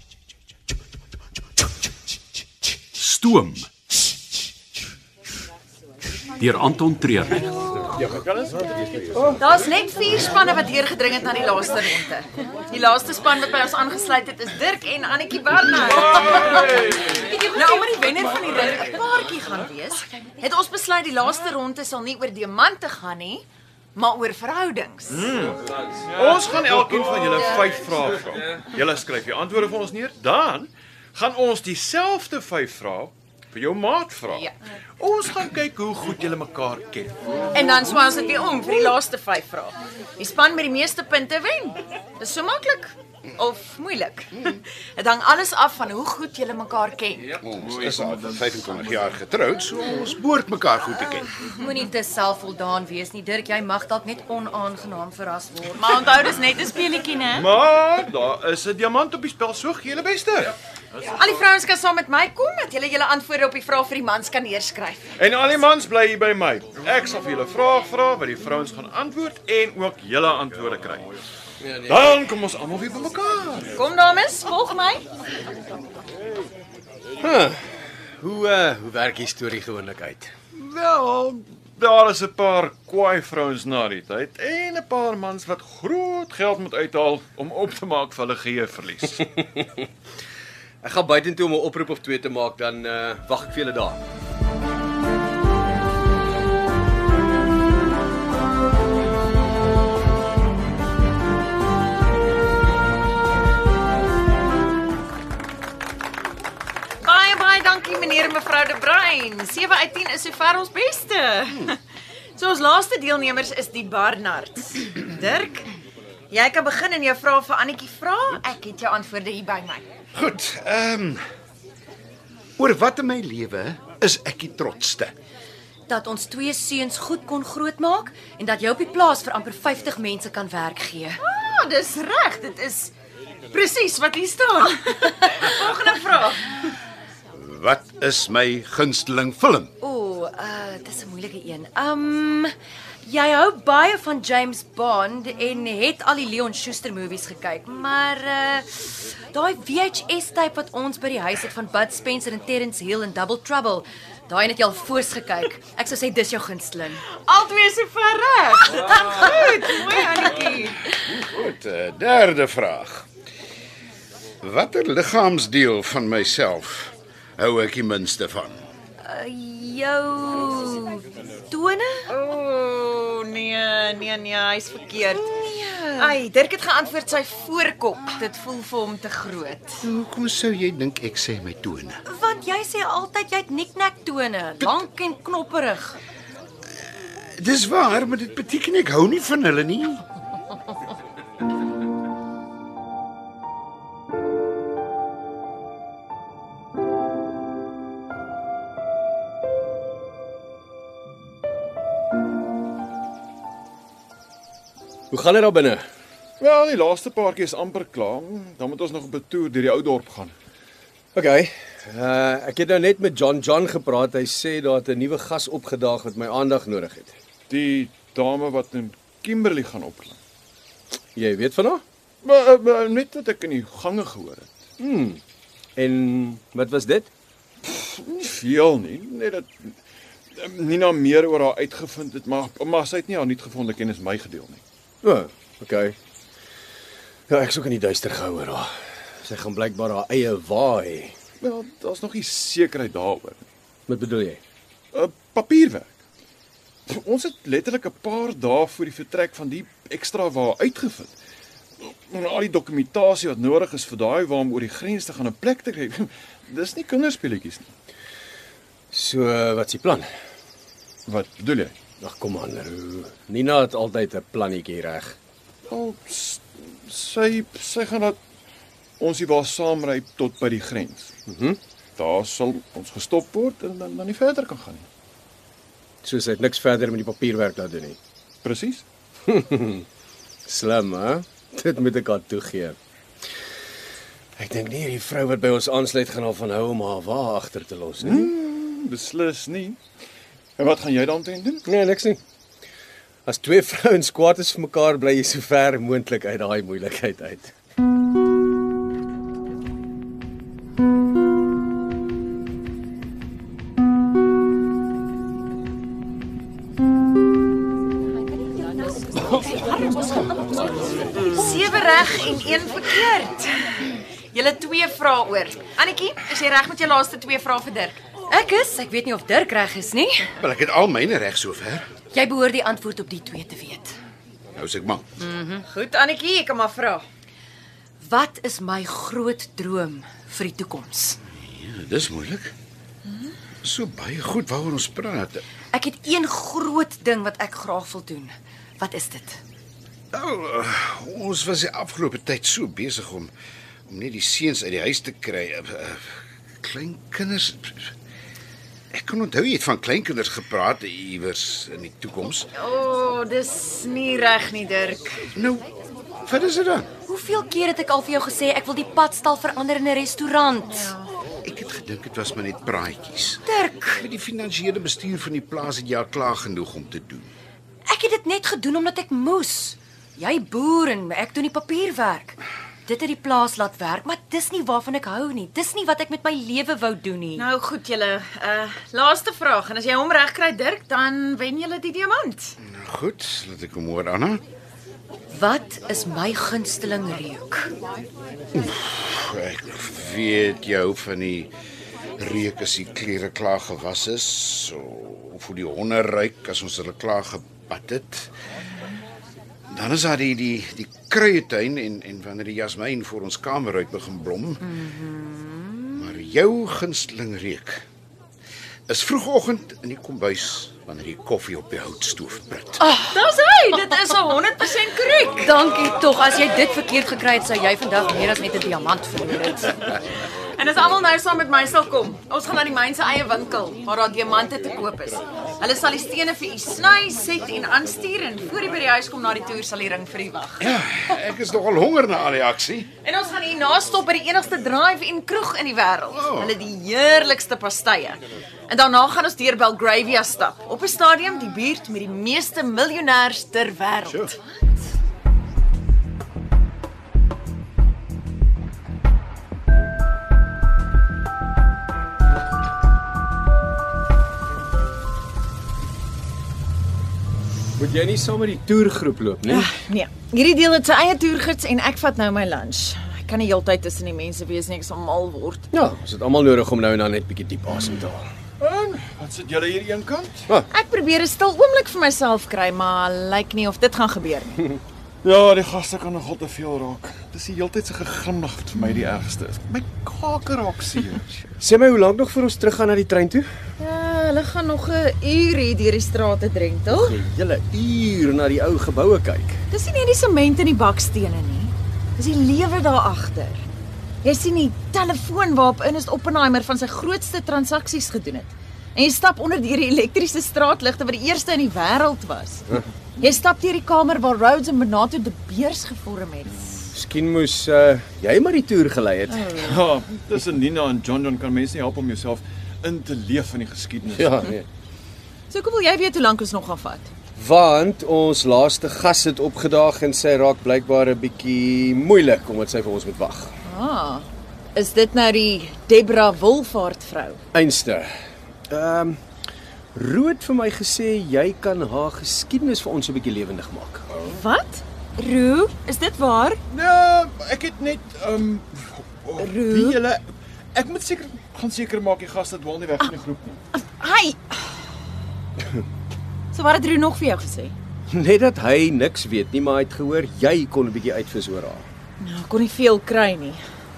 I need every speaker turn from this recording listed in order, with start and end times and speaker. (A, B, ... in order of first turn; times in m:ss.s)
0:02.9-0:03.7 A
0:06.4-0:07.5 A
0:08.0-0:09.3 B
0:09.4-0:16.8 C
0:16.2-0:16.8 B
0:17.2-0:18.7 D
0:17.5-0:25.3 C
0:20.1-0:20.4 D
0:25.1-0:37.2 B
0:37.5-0:47.4 C
0:47.4-0:51.3 E
0:51.4-0:56.2 D
0:55.8-0:57.5 C
0:56.9-0:57.2 D
0:57.3-1:00.6 B
1:01.1-1:05.2 C
1:05.2-1:11.1 B
1:11.6-1:12.1 F
1:11.8-1:13.7 B
1:13.8-1:15.0 C
1:17.2-1:20.3 F
1:20.6-1:29.3 B
1:29.6-1:29.8 F
1:30.8-1:34.0 F
1:47.0-1:51.8 C
1:52.4-1:55.7 C
1:56.3-1:59.9 C
2:00.1-2:01.2 E
2:02.6-2:05.1 E
2:05.9-2:11.2 D
2:11.2-2:12.9 C
2:13.5-2:16.7 C
2:17.3-2:19.7 E
2:19.8-2:22.5 D
2:23.0-2:37.0 D
2:37.1-2:40.8 C
2:41.1-2:43.1 E
2:44.4-2:48.6 E
2:49.0-2:52.1 D
2:52.1-2:55.3 C
2:55.1-2:56.2 D
2:56.0-2:59.8 C
2:59.8-3:02.0 E
3:02.1-3:06.0 D
3:07.4-3:10.0 E
3:25.1-3:25.8 F
3:26.4-3:30.4 B
3:31.2-3:37.2 F
3:37.5-3:40.2 B
3:41.2-3:41.8 F
3:42.2-3:44.6 B
3:44.8-3:45.2 F
3:45.8-3:47.1 F
3:47.6-3:49.8 B
3:50.3-3:54.6 B
3:55.0-3:56.0 F
3:57.3-4:01.2 F
4:01.4-4:03.4 B
4:03.9-4:04.4 F
4:04.9-4:06.0 B
4:06.9-4:11.1 B
4:11.8-4:17.7 B
4:18.9-4:20.1 F
4:21.1-4:21.8 B
4:22.0-4:25.2 F
4:25.7-4:28.2 B
4:29.0-4:31.1 B
4:31.3-4:31.6 F
4:32.0-4:34.9 B
4:36.0-4:38.0 F
4:38.4-4:38.8 B
4:39.3-4:39.8 F
4:40.5-4:42.8 F
4:44.4-4:48.3 F
4:48.0-4:49.8 B
4:50.6-4:51.7 B
4:51.7-4:52.2 F
4:53.3-4:57.5 F
5:09.1-5:10.5 D
5:09.8-5:10.1 C
5:11.2-5:18.0 C
5:18.3-5:20.3 D
5:20.4-5:21.9 E
5:22.1-5:23.9 D
5:24.6-5:25.1 E
5:25.2-5:25.6 D
5:25.7-5:27.0 C
5:28.0-5:31.2 D
5:31.3-5:32.5 E
5:33.6-5:35.4 E
5:35.7-5:39.4 D
5:40.1-5:43.3 E
5:43.9-5:47.9 E
5:48.9-5:52.5 E
5:52.6-5:55.2 C
5:55.3-5:55.7 E
5:56.3-5:56.9 E
5:57.1-6:00.9 D
6:00.8-6:01.1 C
6:01.4-6:07.3 E
6:03.4-6:04.0 D
6:07.9-6:17.5 D
6:17.4-6:22.6 C
6:22.6-6:24.4 E
6:25.3-6:27.7 D
6:28.6-6:31.5 E
6:32.2-6:38.3 E
6:39.7-6:44.7 E
6:44.6-6:46.2 D
6:46.0-6:47.8 E
6:48.9-6:52.8 E
6:52.8-6:53.2 D
6:53.1-6:55.5 C
6:55.4-6:59.8 D
7:00.5-7:10.7 C
7:10.6-7:12.9 E
7:13.0-7:24.5 C
7:16.1-7:16.6 E
7:24.1-7:24.3 E
7:37.8-7:39.7 F
7:39.5-7:45.7 C
7:45.7-7:48.3 F
7:48.6-7:50.5 B
7:50.7-7:54.7 C
7:55.2-8:01.4 B
8:01.6-8:03.5 F
8:03.8-8:07.1 C
8:06.9-8:09.6 F
8:09.7-8:13.6 C
8:14.2-8:22.7 C
8:23.2-8:26.9 C
8:26.9-8:29.5 F
8:29.4-8:29.7 C
8:29.6-8:34.6 B
8:34.1-8:34.6 F
8:35.5-8:37.1 C
8:37.4-8:43.5 F
8:43.6-8:47.4 C
8:47.5-8:48.1 F
8:48.7-8:49.2 F
8:49.9-8:54.1 F
8:54.2-8:56.6 C
8:56.7-9:03.6 B
8:59.4-9:00.0 C
9:03.7-9:04.7 C
9:06.5-9:07.8 C
9:08.1-9:11.9 F
9:12.2-9:13.6 C